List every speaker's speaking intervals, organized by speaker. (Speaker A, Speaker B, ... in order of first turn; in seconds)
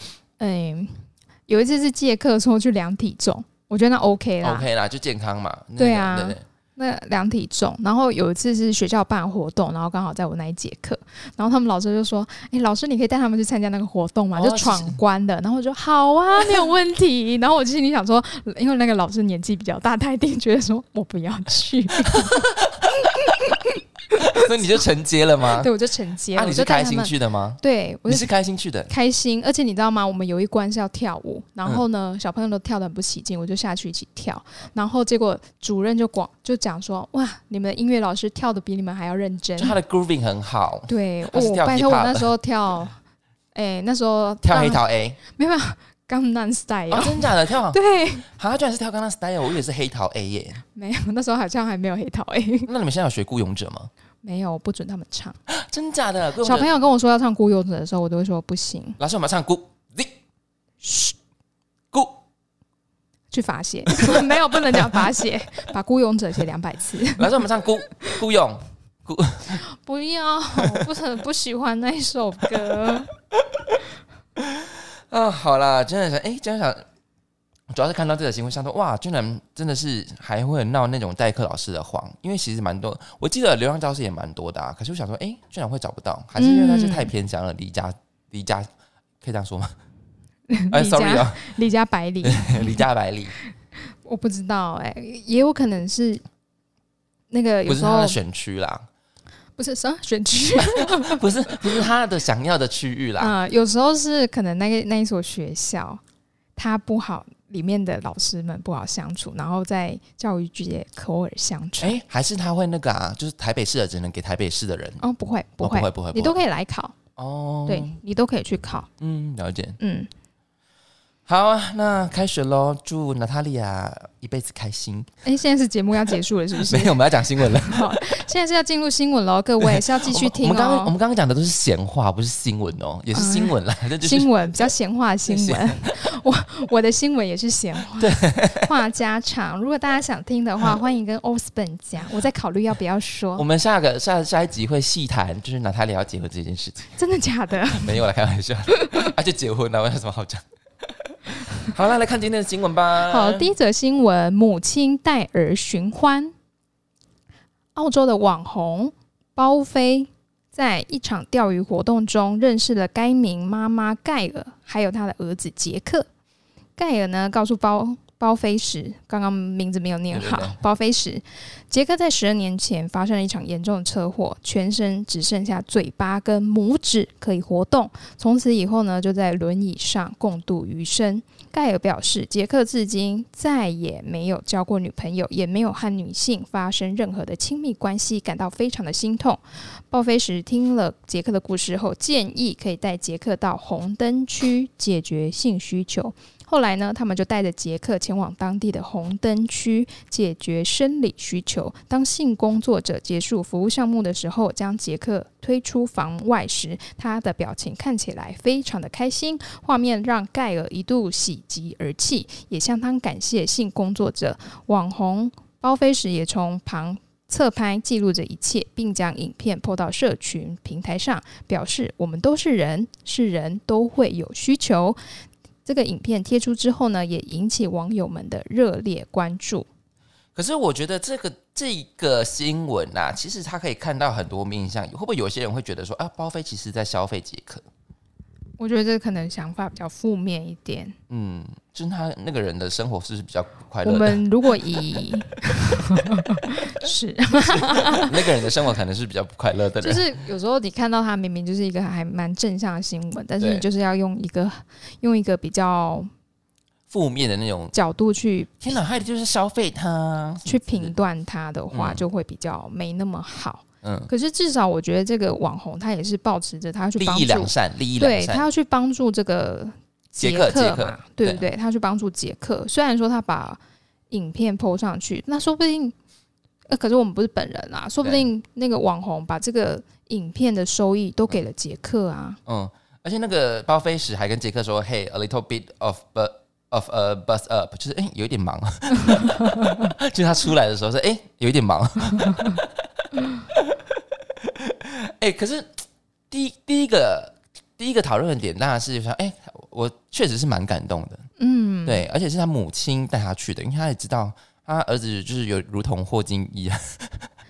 Speaker A: 0.4-4.7, 5.8-22.5, 23.0-24.5, 25.5-28.3, 28.9-39.8, 40.9-43.0, 43.5-48.3, 50.7-52.7, 54.2-55.4, 56.4-59.0, 60.8-61.1, 63.3-67.4, 69.5-73.1, 86.3-87.1, 90.5-92.8, 93.9-96.2, 97.3-98.2, 99.6-101.8, 103.2-106.0, 106.5-112.0, 115.0-117.0, 117.7-118.9, 119.8-120.1, 125.2-130.9, 133.1-143.4, 147.0-148.0, 148.7-149.1, 153.0-156.3, 157.7-166.1, 166.8-225.0, 225.6-229.7, 238.6-240.9, 243.8-248.2, 249.8-256.1, 257.7-258.6, 260.4-273.6, 274.1-275.9, 276.7-282.4, 301.4-302.0
Speaker B: 4.4-6.4, 14.3-15.0, 22.1-22.8, 24.2-25.7, 26.3-28.9, 39.6-42.3, 44.4-45.2, 46.9-50.6, 52.7-53.9, 55.5-56.7, 59.0-60.2, 61.9-62.2, 64.0-64.3, 67.2-69.6, 70.6-70.8, 74.4-76.8, 77.7-88.7, 89.2-89.7, 90.7-91.5, 92.2-93.3, 97.7-98.8, 100.6-103.3, 111.8-115.0, 115.6-116.4, 117.2-118.0, 119.0-119.8, 121.2-125.1, 126.6-128.2, 129.6-134.7, 135.3-135.9, 138.0-138.7, 143.4-146.9, 147.7-153.5, 170.1-170.6, 230.3-237.6, 241.1-244.2, 247.5-250.0, 253.4-253.7, 256.9-257.7, 258.6-260.9, 261.7-262.0, 263.8-264.1, 267.0-268.4, 270.2-271.4, 282.4-292.7, 293.5-293.8, 294.4-301.2, 301.9-307.3